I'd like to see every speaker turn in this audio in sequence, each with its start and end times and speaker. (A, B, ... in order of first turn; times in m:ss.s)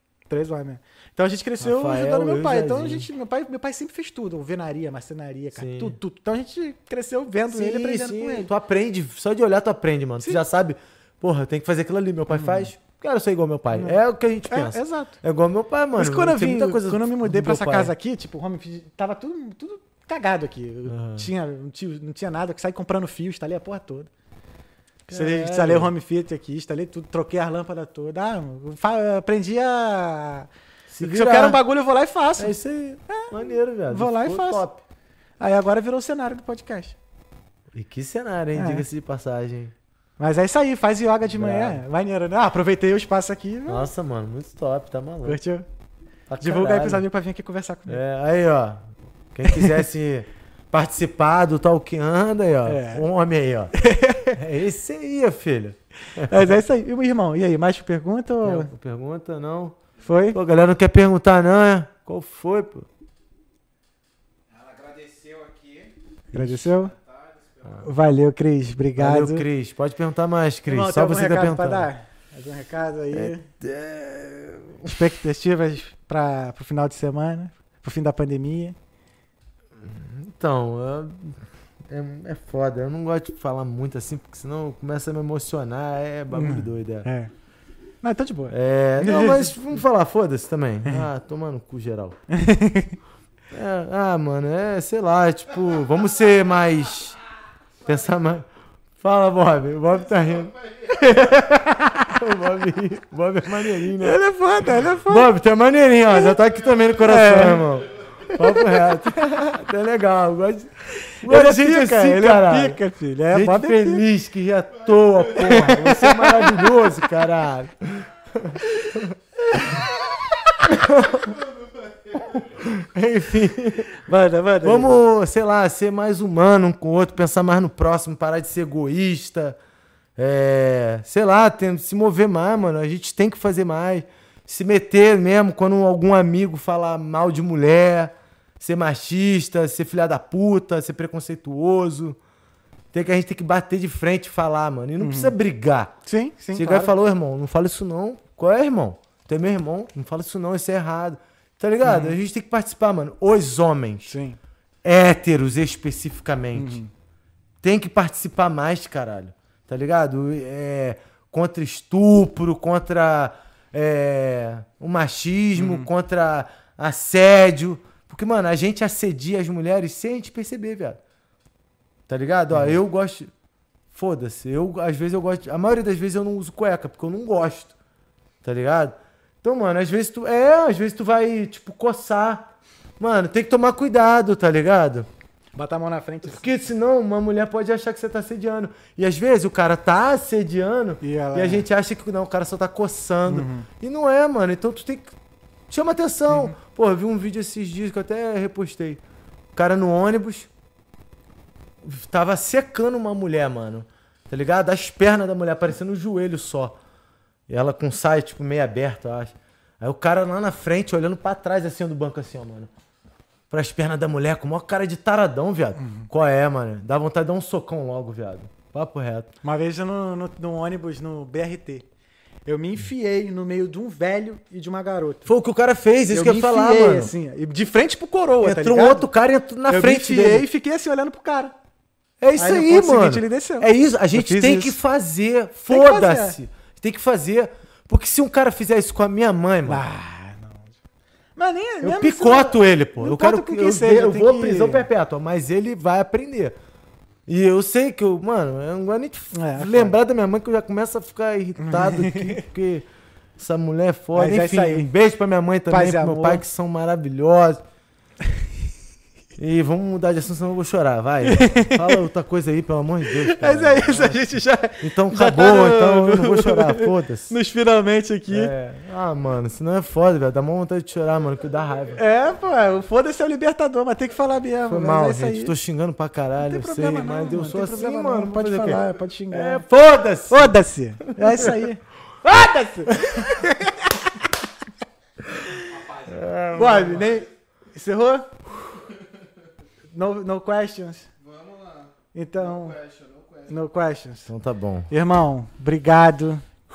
0:00.3-0:08.5 A
0:01.6-0:03.1 B
0:05.5-0:06.0 B
0:07.5-0:17.9 B
0:12.3-0:12.7 A
0:13.7-0:15.2 A
0:16.0-0:24.1 A
0:20.9-0:21.3 B
0:25.1-0:30.5 A
0:25.1-0:25.9 B
0:30.9-0:31.6 B
0:31.0-0:32.6 A
0:32.4-0:34.8 B
0:33.1-0:33.4 A
0:33.9-0:34.6 A
0:35.4-0:37.0 A
0:37.7-0:39.7 B
0:38.5-0:38.8 A
0:40.2-0:43.9 A
0:41.3-0:41.8 B
0:43.7-0:45.4 B
0:45.2-0:45.7 A
0:46.3-0:47.0 B
0:46.4-0:48.0 A
0:47.9-0:53.7 B
0:49.4-0:49.8 A
0:52.6-0:53.0 A
0:53.7-0:54.4 A
0:54.3-0:56.6 B
0:56.2-0:58.7 A
0:58.4-0:59.8 B
1:00.0-1:00.4 A
1:00.3-1:02.9 B
1:04.5-1:06.0 C
1:06.3-1:06.9 A
1:06.6-1:07.9 C
1:07.8-1:09.4 A
1:09.0-1:11.9 B
1:10.6-1:13.4 A
1:13.1-1:15.2 B
1:14.8-1:18.8 A
1:19.8-1:27.1 B
1:26.3-1:27.3 A
1:28.0-1:29.8 A
1:28.5-1:32.2 B
1:32.3-1:33.0 A
1:33.5-1:37.2 B
1:37.8-1:38.5 B
1:39.0-1:40.5 B
1:40.2-1:41.0 C
1:40.9-1:42.2 A
1:42.0-1:44.2 B
1:43.8-1:45.3 A
1:45.0-1:59.1 B
1:46.1-1:46.4 A
1:47.0-1:47.7 A
1:48.3-1:49.5 A
1:50.9-1:54.0 A
1:55.3-1:56.9 A
1:58.6-2:00.8 A
2:00.6-2:01.4 B
2:01.1-2:02.5 C
2:02.6-2:03.9 B
2:03.9-2:05.0 A
2:04.6-2:09.6 B
2:10.2-2:22.2 B
2:22.9-2:25.9 B
2:25.0-2:25.3 A
2:26.0-2:26.9 A
2:26.5-2:34.2 B
2:31.8-2:32.2 A
2:34.0-2:34.4 A
2:34.8-2:36.8 B
2:36.5-2:36.9 A
2:37.6-2:51.0 B
2:45.6-2:45.9 A
2:52.1-2:53.3 B
2:53.9-2:57.7 B
2:58.4-3:05.1 B
3:05.5-3:06.5 A
3:06.2-3:15.1 B
3:11.0-3:11.6 A
3:13.3-3:13.7 A
3:15.7-3:19.0 B
3:16.3-3:16.6 A
3:19.5-3:20.5 B
3:21.8-3:26.8 B
3:27.5-3:32.7 B
3:33.5-3:39.3 B
3:35.8-3:36.1 A
3:39.4-3:41.9 A
3:42.4-3:45.3 A
3:45.2-3:47.1 B
3:46.1-3:49.1 A
3:48.4-3:50.4 B
3:49.7-3:51.5 A
3:52.2-3:59.8 B
3:52.4-3:54.8 A
3:55.7-3:56.4 A
3:59.6-4:00.8 A
4:01.4-4:04.8 A
4:01.8-4:06.6 B
4:07.3-4:12.8 B
4:09.3-4:10.0 A
4:11.6-4:12.4 A
4:13.4-4:17.6 B
4:14.1-4:14.9 A
4:15.7-4:16.4 A
4:19.4-4:27.3 B
4:21.2-4:22.0 A
4:23.1-4:28.5 A
4:28.3-4:32.0 B
4:31.9-4:35.5 A
4:34.7-4:41.6 B
4:36.4-4:39.6 A
4:40.3-4:44.1 A
4:43.0-4:43.5 B
4:45.6-4:47.3 C
4:46.1-4:47.0 B
4:46.5-4:48.3 A
4:49.9-4:51.1 A
4:51.2-4:53.6 C
4:52.1-4:52.8 A
4:53.5-4:54.3 A
4:54.3-4:54.9 B
4:54.9-4:56.4 A